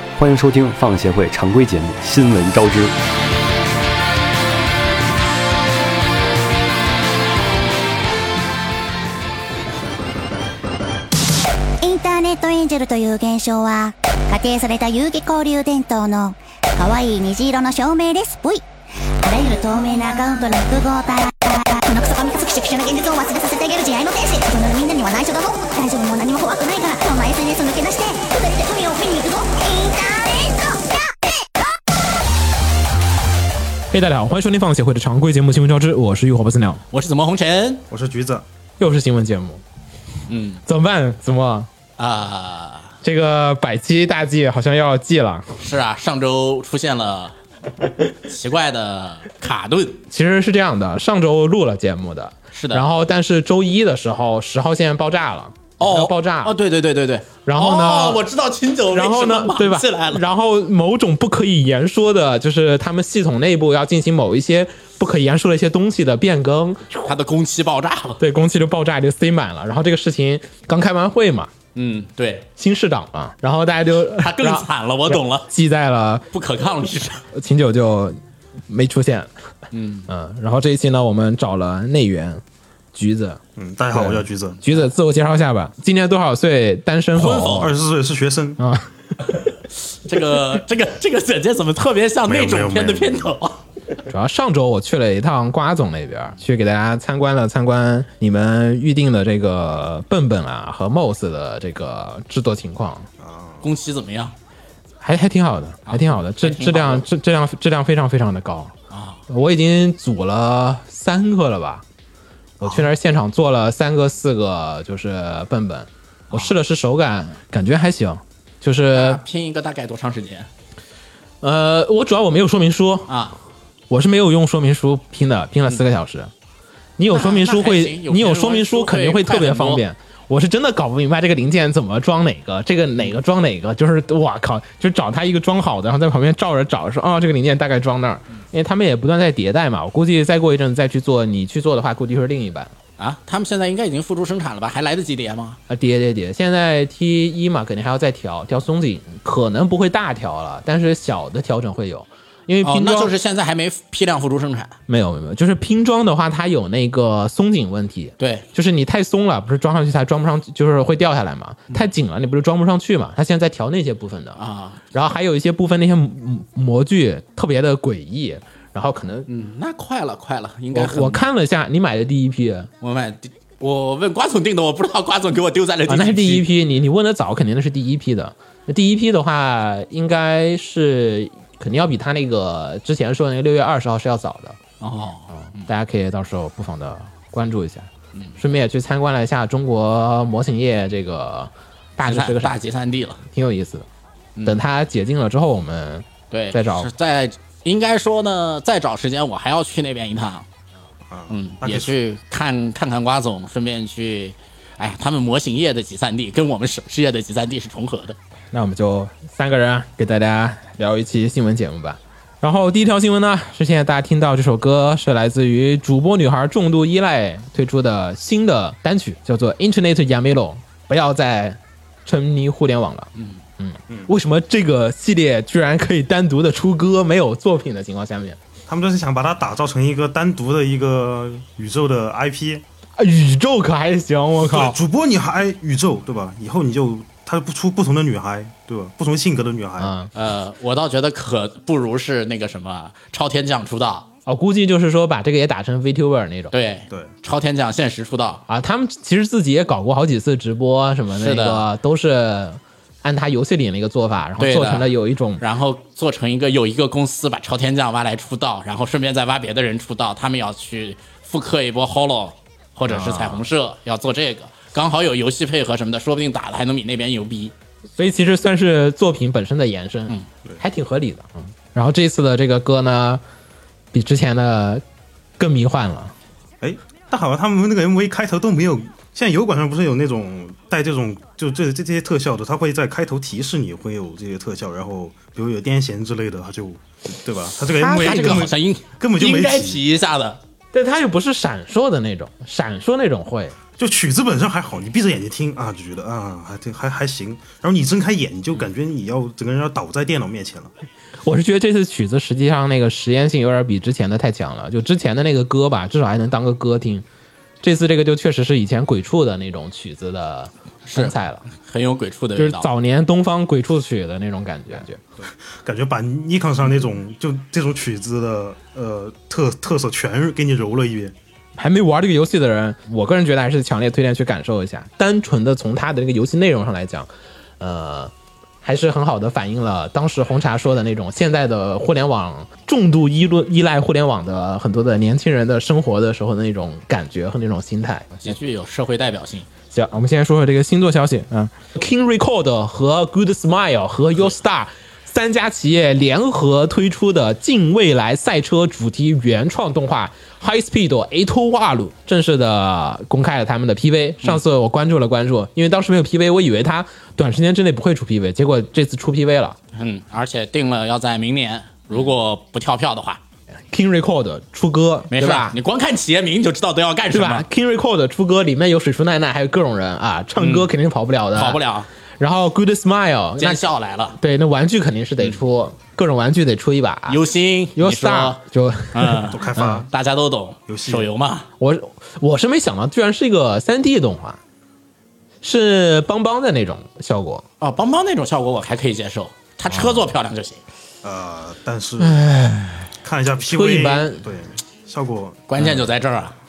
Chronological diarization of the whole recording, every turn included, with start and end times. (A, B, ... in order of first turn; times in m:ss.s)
0:00.2-0:03.0 A
0:11.8-0:18.6 B
0:19.2-0:31.5 B
0:33.9-0:36.8 C
0:36.9-0:37.8 D
0:37.9-0:38.4 E
0:38.8-0:39.6 C
0:40.3-0:40.6 D
0:40.7-0:41.7 C
0:42.0-0:43.0 D
0:43.0-0:45.6 C
0:45.6-0:47.4 D
0:48.2-0:50.0 D
0:50.1-0:56.6 C
0:52.5-0:52.9 D
0:55.8-1:00.2 D
0:57.5-0:58.2 C
0:58.9-1:07.0 C
1:06.9-1:08.2 D
1:08.2-1:11.5 C
1:11.8-1:12.5 D
1:12.6-1:16.3 C
1:14.2-1:15.5 D
1:16.3-1:17.2 D
1:17.3-1:19.3 C
1:19.7-1:20.1 D
1:20.1-1:22.4 C
1:22.9-1:23.4 C
1:23.6-1:24.6 E
1:23.9-1:27.7 C
1:27.2-1:28.6 E
1:28.6-1:29.4 C
1:29.9-1:33.6 D
1:32.3-1:33.4 E
1:34.1-1:43.1 C
1:43.2-1:43.6 E
1:43.6-1:44.4 D
1:45.0-1:48.7 C
1:45.9-1:47.1 D
1:48.9-1:49.2 D
1:49.3-1:51.8 C
1:52.6-1:59.2 C
1:58.9-2:00.5 D
2:01.4-2:03.1 C
2:03.1-2:03.4 D
2:03.9-2:06.3 C
2:07.0-2:22.7 C
2:07.1-2:09.8 D
2:23.0-2:25.6 D
2:25.7-2:33.1 C
2:32.6-2:34.8 D
2:34.9-2:44.4 C
2:38.2-2:38.4 D
2:44.4-2:44.8 D
2:44.9-2:49.3 C
2:49.3-2:51.2 D
2:50.7-2:52.7 C
2:52.8-2:56.5 D
2:55.9-3:04.6 C
3:04.8-3:05.7 D
3:05.3-3:12.6 C
3:12.0-3:13.2 D
3:13.3-3:13.9 C
3:14.4-3:16.9 C
3:16.3-3:20.5 D
3:21.1-3:21.9 E
3:21.3-3:28.2 D
3:28.5-3:48.4 C
3:43.2-3:43.4 D
3:48.7-3:52.6 E
3:53.0-3:54.8 C
3:54.4-4:00.0 E
3:59.8-4:00.1 C
4:00.1-4:04.1 D
4:04.3-4:06.5 C
4:06.5-4:08.4 D
4:08.5-4:15.4 C
4:11.1-4:11.7 D
4:14.4-4:14.9 D
4:15.4-4:27.5 D
4:22.9-4:23.4 C
4:28.0-4:33.2 C
4:33.9-4:34.8 C
4:35.4-4:36.1 C
4:36.6-4:49.8 E
4:47.7-4:48.5 C
4:47.9-4:50.4 D
4:50.7-4:53.6 C
4:53.8-5:00.7 E
5:01.2-5:07.0 C
5:07.6-5:11.4 C
5:10.9-5:12.7 D
5:12.3-5:15.0 C
5:15.2-5:21.1 E
5:21.6-5:28.1 C
5:28.6-5:38.4 C
5:38.2-5:39.5 D
5:39.7-5:59.6 C
5:59.7-6:03.2 D
6:03.7-6:05.6 C
6:05.1-6:07.5 D
6:07.1-6:11.6 C
6:10.4-6:10.7 D
6:11.4-6:11.9 D
6:12.2-6:17.2 C
6:13.4-6:14.2 D
6:17.1-6:18.4 D
6:17.8-6:19.8 C
6:18.9-6:21.5 D
6:19.3-6:19.9 E
6:20.7-6:21.1 E
6:21.6-6:24.4 C
6:25.4-6:27.4 C
6:27.6-6:30.6 D
6:29.7-6:30.0 C
6:31.0-6:32.2 E
6:32.0-6:34.3 C
6:33.0-6:35.4 E
6:35.5-6:36.4 D